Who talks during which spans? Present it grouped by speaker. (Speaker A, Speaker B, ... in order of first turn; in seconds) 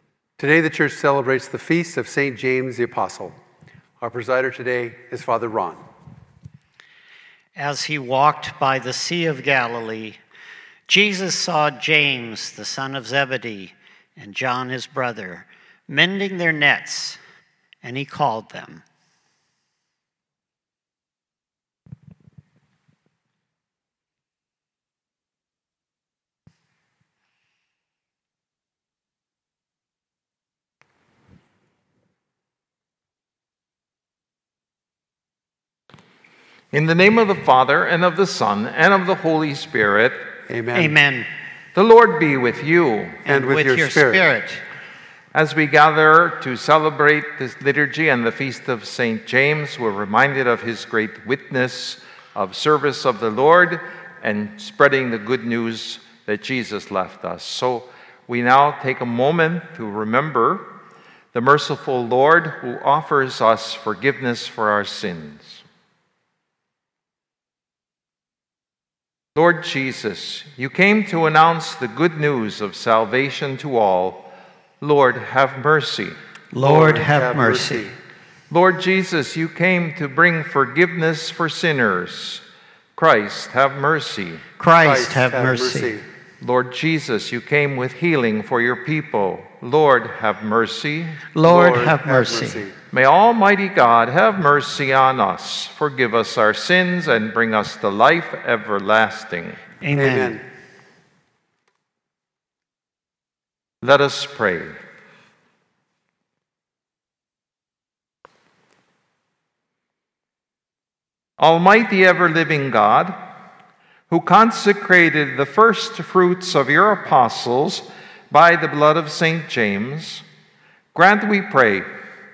Speaker A: 0.4-3.4, 4.0-5.8, 40.5-40.9, 43.2-44.2, 76.6-77.9, 84.8-86.0, 91.4-92.8, 99.9-100.4
Speaker B: 7.5-10.2, 10.9-17.2, 17.8-18.8, 40.7-41.3, 43.2-44.6, 76.5-77.9, 84.6-85.9, 91.3-92.6, 99.8-100.4
Speaker C: 36.7-40.2, 41.8-43.2, 45.3-60.7, 61.3-65.6, 69.3-74.3, 74.8-76.2, 78.5-82.4, 83.0-84.4, 86.4-91.2, 92.9-99.6, 103.8-104.7, 111.4-113.2, 114.1-120.2, 120.9-121.8